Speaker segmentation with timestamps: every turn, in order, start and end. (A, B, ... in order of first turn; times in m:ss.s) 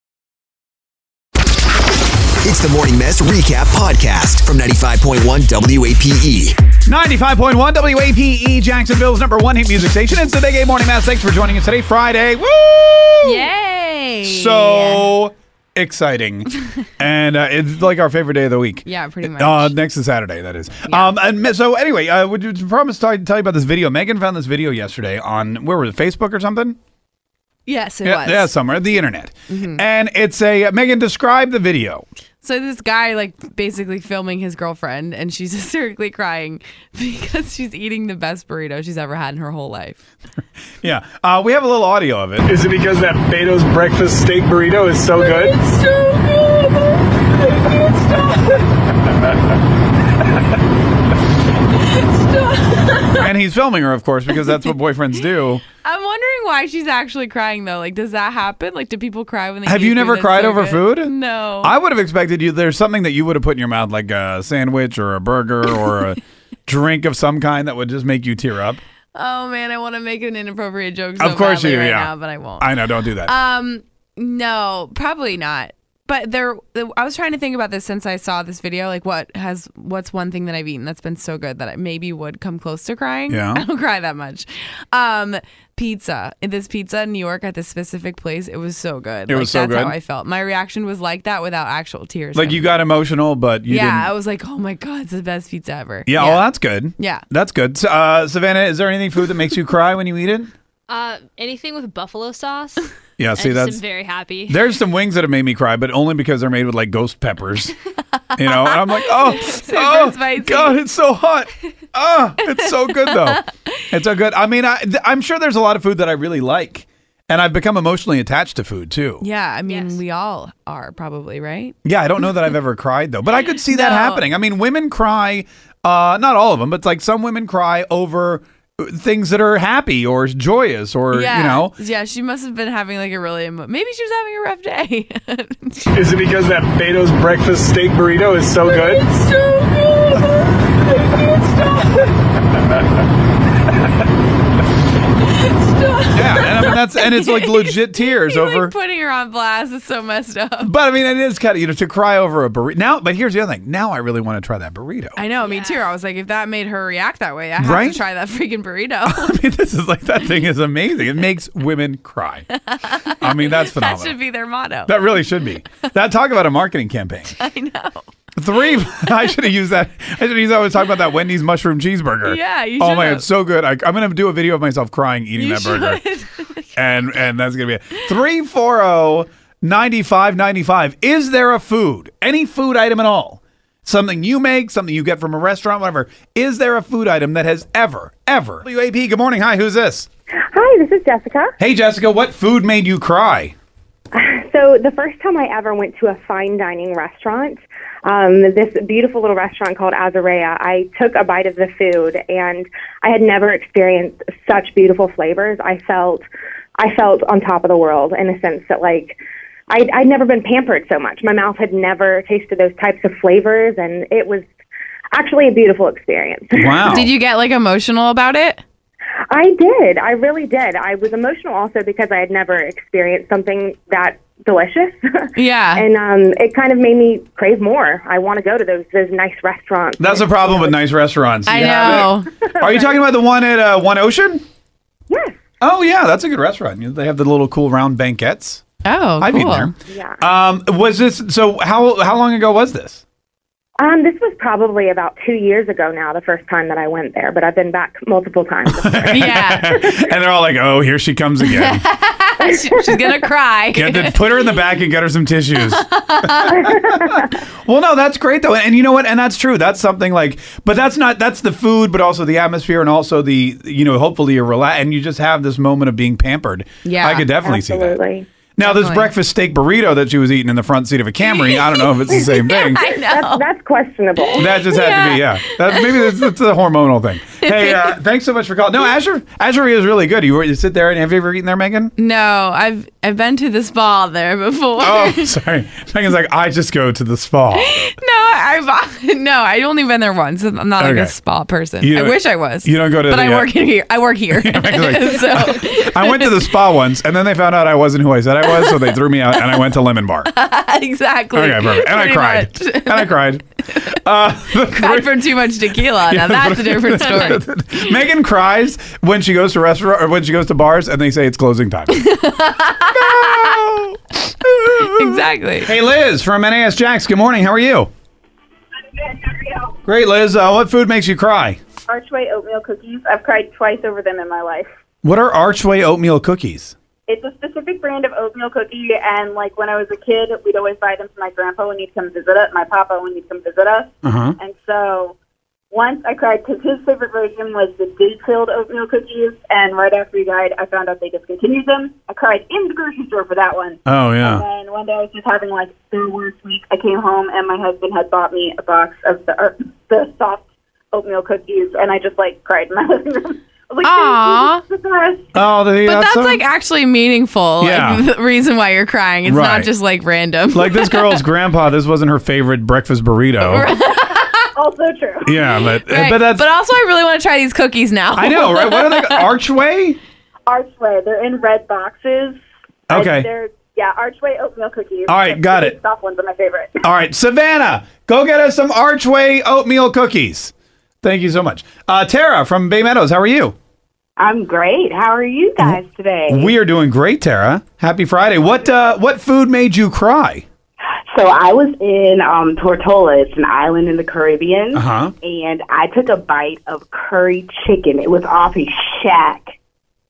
0:02.4-0:06.6 A
0:06.8-0:13.4 B
0:13.2-0:15.1 C
0:14.2-0:26.8 B
0:18.8-0:19.7 C
0:27.6-0:28.5 C
0:28.0-0:32.0 B
0:29.5-0:29.8 C
0:32.4-0:40.0 C
0:40.8-0:42.5 B
0:42.4-0:45.6 D
0:45.6-0:48.6 C
0:51.9-0:53.3 C
0:53.2-0:55.6 B
0:55.8-1:01.7 C
0:59.6-1:08.8 B
1:09.1-1:32.7 C
1:11.2-1:13.3 B
1:23.3-1:23.6 B
1:29.3-1:29.9 B
1:32.3-1:34.1 B
1:33.7-1:37.2 C
1:36.1-1:40.5 B
1:40.9-1:44.7 E
1:43.2-1:43.9 B
1:44.5-1:47.7 B
1:48.4-1:59.2 B
1:49.2-1:50.8 C
1:53.0-1:53.7 C
1:59.2-2:01.7 C
1:59.6-2:00.0 E
2:01.8-2:11.7 B
2:03.7-2:04.2 C
2:11.1-2:16.0 C
2:15.9-2:19.1 D
2:18.9-2:22.1 C
2:25.5-2:30.7 C
2:26.1-2:28.7 B
2:30.6-2:35.2 B
2:35.2-2:39.3 C
2:35.4-2:35.9 E
2:37.6-2:38.0 B
2:39.1-2:42.5 B
2:42.7-2:45.0 C
2:43.2-2:44.2 B
2:44.8-2:47.3 B
2:47.3-2:48.1 C
2:48.4-2:56.0 B
2:52.2-2:53.2 C
2:55.3-2:56.8 C
2:56.7-3:10.1 B
3:10.5-3:11.5 F
3:11.6-3:13.5 B
3:14.1-3:26.2 F
3:26.8-3:29.2 F
3:29.7-3:34.4 F
3:35.1-3:37.1 F
3:36.6-3:37.1 B
3:36.9-3:38.6 C
3:39.3-3:50.8 F
3:45.4-3:45.8 C
3:50.0-3:54.4 B
3:51.4-3:52.3 C
3:51.6-3:53.0 F
3:55.1-3:55.4 F
3:55.6-3:58.6 B
3:58.8-3:59.7 C
3:59.2-4:03.0 B
3:59.8-4:00.2 F
4:03.8-4:09.4 F
4:08.7-4:11.8 B
4:09.1-4:09.7 C
4:11.5-4:14.3 C
4:13.7-4:28.0 B
4:15.7-4:16.6 C
4:16.6-4:17.2 F
4:26.8-4:27.3 C
4:27.4-4:28.2 F
4:28.6-4:32.9 B
4:28.6-4:29.1 C
4:32.2-4:33.4 C
4:32.9-4:34.6 F
4:34.3-4:35.9 C
4:34.4-4:41.9 B
4:37.4-4:37.9 C
4:42.0-4:45.3 C
4:44.8-4:47.8 B
4:47.5-4:56.3 C
4:50.8-4:51.1 B
4:51.8-4:53.6 B
4:54.3-5:00.3 B
4:58.5-4:59.6 C
5:00.3-5:03.2 C
5:01.3-5:12.0 B
5:04.7-5:07.4 C
5:11.9-5:13.6 C
5:12.9-5:17.9 B
5:14.8-5:15.7 C
5:18.9-5:19.8 G
5:19.8-5:21.6 B
5:21.9-5:24.7 G
5:25.0-5:26.7 B
5:27.1-5:35.1 G
5:34.0-5:34.4 B
5:35.7-5:55.3 G
5:43.8-5:44.4 B
5:53.8-5:54.6 C
5:55.3-5:56.4 B
5:55.8-6:01.2 C
5:57.6-5:58.0 B
5:59.2-5:59.7 B
6:00.5-6:03.7 B
6:03.4-6:04.4 C
6:04.5-6:05.3 G
6:05.3-6:06.4 B
6:05.3-6:09.3 C
6:08.2-6:10.0 B
6:10.5-6:12.4 G
6:12.9-6:13.3 B
6:12.9-6:16.8 G
6:15.1-6:15.8 B
6:16.8-6:20.5 B
6:21.0-6:23.5 B
6:24.2-6:26.5 H
6:25.6-6:30.4 B
6:31.1-6:39.5 H
6:34.7-6:35.1 B